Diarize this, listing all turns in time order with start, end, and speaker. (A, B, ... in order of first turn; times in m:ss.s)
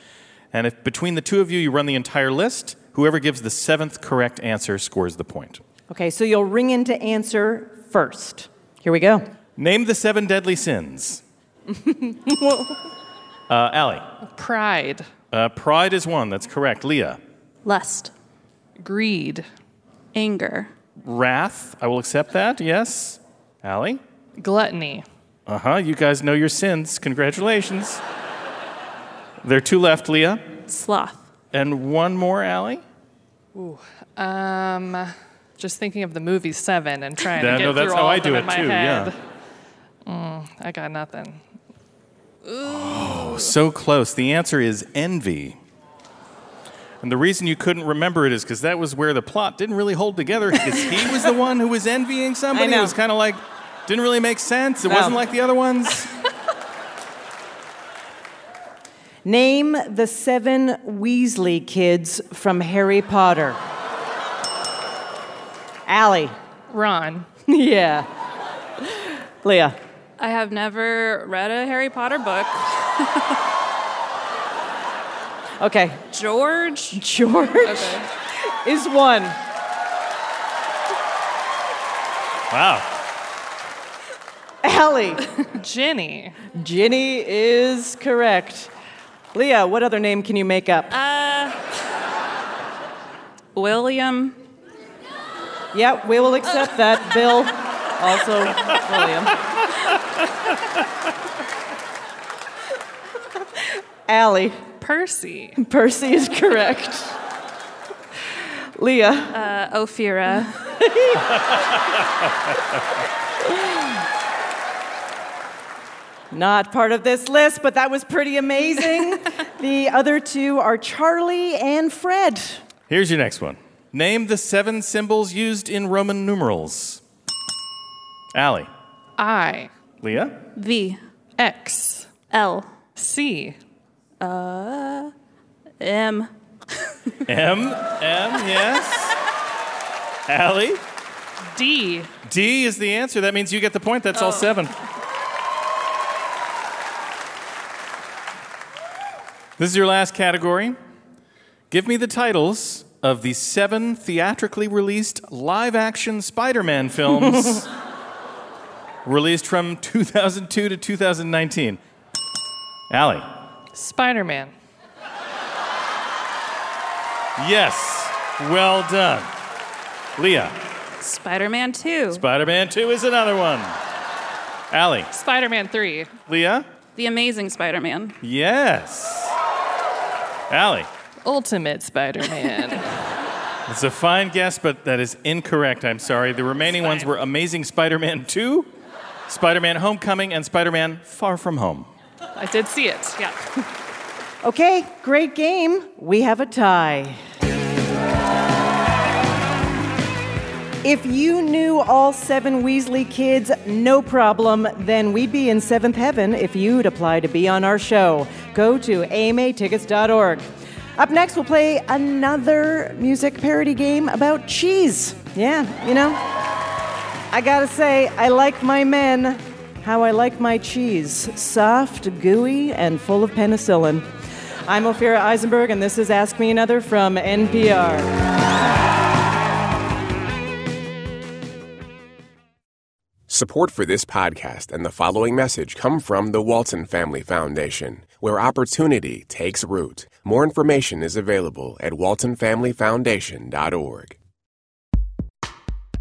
0:00.5-0:05.6 A
0:05.9-0:09.3 B
0:09.6-0:11.2 A
0:11.8-0:12.8 B
0:13.5-0:14.0 A
0:14.2-0:15.1 C
0:15.3-0:17.2 A
0:17.6-0:18.1 D
0:18.8-0:19.4 C
0:20.1-0:20.7 D
0:21.0-0:24.0 A
0:24.4-0:25.0 C
0:25.5-0:28.0 A
0:29.4-0:30.4 A
0:30.7-0:31.2 D
0:31.5-0:32.8 A
0:33.5-0:39.2 C
0:37.4-0:39.1 A
0:40.0-0:41.4 C
0:42.5-0:43.4 C
0:42.6-0:45.6 A
0:47.0-0:56.1 A
0:52.5-0:52.9 B
0:54.8-0:55.2 B
0:59.2-1:03.6 B
1:05.9-1:06.3 B
1:06.7-1:07.3 C
1:07.5-1:08.1 B
1:08.8-1:09.8 B
1:10.2-1:13.2 D
1:15.6-1:16.0 B
1:16.1-1:17.0 D
1:16.9-1:19.3 B
1:17.6-1:18.0 D
1:22.5-1:22.8 A
1:24.6-1:25.3 B
1:25.6-1:26.4 C
1:26.5-1:28.7 B
1:29.3-1:30.9 B
1:30.9-1:31.6 D
1:33.5-1:34.4 D
1:35.7-1:39.4 B
1:44.1-1:44.6 B
1:44.8-1:45.6 C
1:45.6-1:47.2 B
1:48.8-1:49.4 B
1:49.3-1:50.6 D
1:50.7-1:51.4 B
1:56.3-2:02.6 B
2:02.9-2:07.0 A
2:08.3-2:08.7 A
2:09.2-2:09.7 C
2:10.0-2:10.3 A
2:10.5-2:11.0 D
2:11.4-2:12.1 C
2:12.3-2:12.7 D
2:12.9-2:13.6 C
2:14.2-2:15.1 D
2:15.8-2:16.3 D
2:17.3-2:19.1 A
2:20.3-2:20.8 A
2:21.5-2:22.1 C
2:22.3-2:24.7 A
2:29.6-2:30.8 A
2:31.7-2:37.7 A
2:39.0-2:41.8 A
2:42.9-2:43.3 A
2:43.7-2:44.5 C
2:47.4-2:49.3 A
2:50.2-2:50.5 A
2:51.0-2:52.2 D
2:52.1-2:53.7 A
2:54.7-2:55.1 A
2:55.1-2:56.1 C
2:56.3-2:56.6 A
2:57.0-2:58.1 D
2:58.2-2:59.3 A
3:00.5-3:00.9 A
3:01.2-3:02.8 C
3:03.7-3:08.7 A
3:06.8-3:07.0 C
3:09.3-3:11.9 A
3:12.4-3:13.3 C
3:14.4-3:17.2 B
3:20.8-3:30.4 B
3:31.0-3:36.2 B
3:37.3-3:44.1 B
3:44.7-3:48.1 B
3:53.3-4:04.2 E